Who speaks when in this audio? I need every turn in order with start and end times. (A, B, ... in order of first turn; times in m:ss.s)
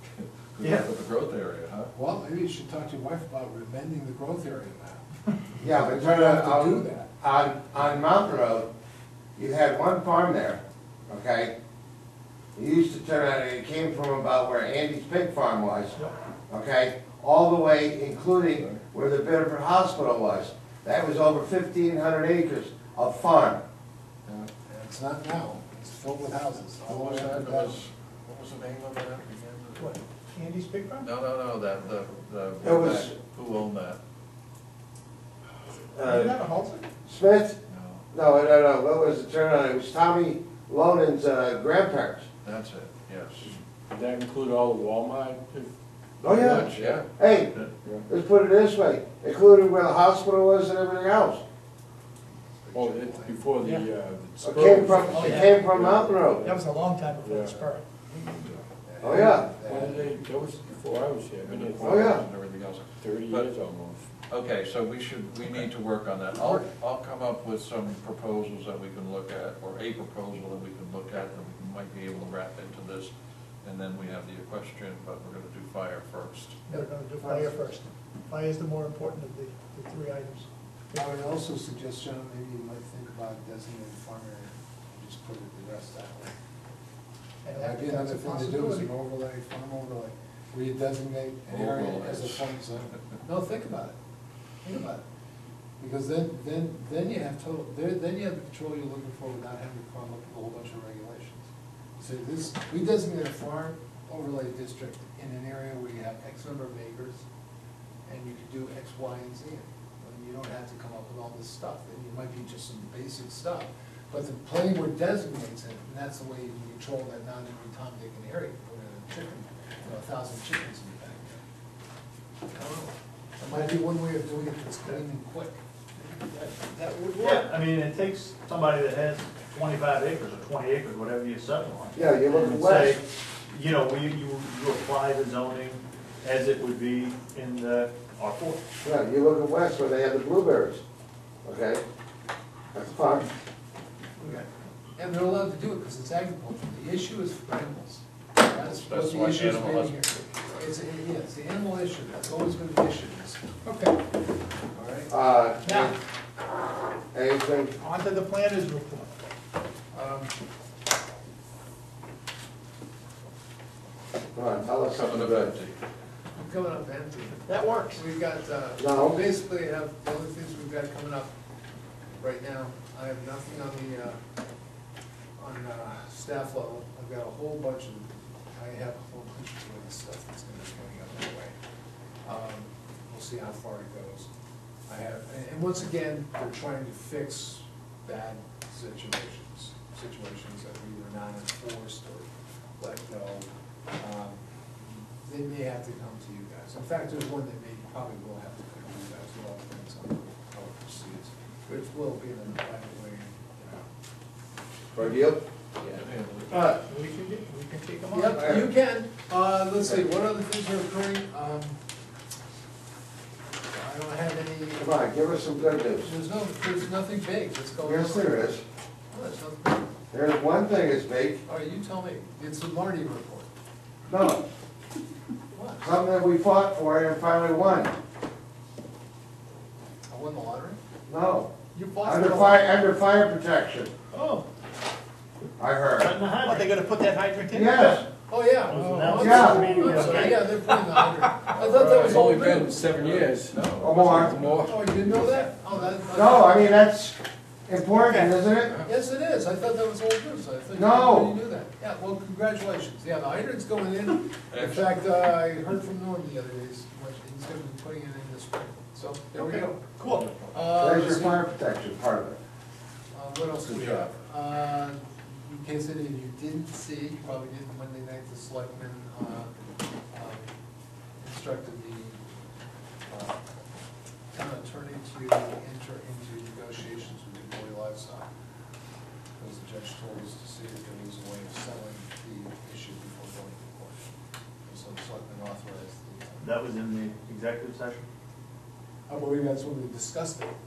0:00.2-0:01.9 A
0:00.6-0:00.8 B
0:01.9-0:07.1 C
0:05.6-0:08.7 D
0:09.4-0:11.5 D
0:12.6-0:16.0 D
0:16.5-0:23.6 D
0:24.6-0:27.8 C
0:26.8-0:30.0 A
0:29.8-0:31.1 E
0:31.0-0:34.0 A
0:32.6-0:33.1 D
0:36.0-0:36.4 D
0:36.0-0:36.8 E
0:37.0-0:37.6 D
0:37.7-0:38.0 A
0:38.1-0:42.3 D
0:42.4-0:43.5 A
0:43.5-0:45.7 F
0:46.2-0:47.0 F
0:46.2-0:47.5 D
0:46.6-0:47.7 A
0:48.1-0:51.4 D
0:52.3-0:53.4 C
0:52.7-0:56.6 F
0:54.4-0:56.5 D
0:55.1-0:55.6 E
0:56.4-0:57.8 E
0:57.2-0:57.6 F
0:58.8-1:00.2 C
0:59.0-0:59.5 D
0:59.6-1:02.2 F
1:01.4-1:03.5 A
1:01.8-1:02.2 D
1:03.0-1:04.1 F
1:04.3-1:13.1 A
1:13.6-1:16.6 A
1:16.7-1:21.0 E
1:16.7-1:17.6 C
1:20.9-1:26.3 C
1:27.4-1:28.9 E
1:27.5-1:34.0 C
1:31.5-1:32.4 A
1:34.6-1:35.0 C
1:35.8-1:41.5 C
1:42.0-1:47.2 C
1:48.0-2:01.4 C
2:02.5-2:05.6 C
2:06.3-2:07.5 E
2:07.2-2:18.6 B
2:11.9-2:13.0 D
2:18.8-2:20.8 D
2:21.4-2:21.8 D
2:22.7-2:23.3 D
2:24.2-2:33.4 C
2:28.4-2:30.2 A
2:33.6-2:34.0 E
2:34.7-2:35.1 C
2:35.1-2:35.9 D
2:35.6-2:35.9 E
2:37.1-2:37.7 D
2:37.8-2:39.1 E
2:39.9-2:40.3 C
2:44.3-2:45.5 D
2:44.9-2:45.8 A
2:46.4-2:51.3 C
2:47.5-2:48.0 E
2:48.8-2:49.2 D
2:52.2-2:54.2 C
2:55.4-3:01.5 C
3:02.2-3:04.3 C
3:04.9-3:14.4 C
3:15.2-3:23.8 C
3:24.9-3:25.4 D
3:25.8-3:26.6 A
3:26.5-3:26.8 D
3:26.9-3:28.4 E
3:28.1-3:31.8 C
3:28.3-3:28.7 D
3:33.7-3:34.9 C
3:34.8-3:36.1 D
3:36.0-3:38.6 C
3:37.8-3:38.6 D
3:39.1-3:39.9 C
3:40.1-3:41.4 D
3:41.4-3:43.5 C
3:44.1-3:44.4 D
3:45.5-3:45.8 C
3:45.8-3:47.9 D
3:50.1-3:50.8 C
3:51.1-3:53.9 D
3:51.7-3:52.6 E
3:55.6-3:56.1 D
3:56.0-3:56.9 B
3:56.4-3:58.0 E
3:57.5-3:58.0 D
3:58.3-4:03.2 C
3:58.7-4:00.5 B
3:58.7-4:00.1 E
3:59.2-3:59.7 D
4:01.6-4:04.5 A
4:01.9-4:05.1 F
4:03.8-4:04.3 D
4:04.3-4:06.7 C
4:06.1-4:07.2 D
4:07.7-4:08.8 D
4:08.0-4:08.4 E
4:08.8-4:19.8 C
4:10.7-4:11.3 D
4:14.5-4:14.8 A
4:19.4-4:20.2 B
4:20.0-4:20.5 A
4:20.5-4:21.4 C
4:20.8-4:22.4 D
4:23.1-4:29.5 C
4:23.6-4:24.1 A
4:30.1-4:30.5 C
4:31.2-4:32.2 C
4:33.1-4:33.4 C
4:34.3-4:38.3 C
4:39.4-4:44.1 C
4:44.6-4:46.5 C
4:46.4-4:48.1 B
4:49.1-4:50.5 C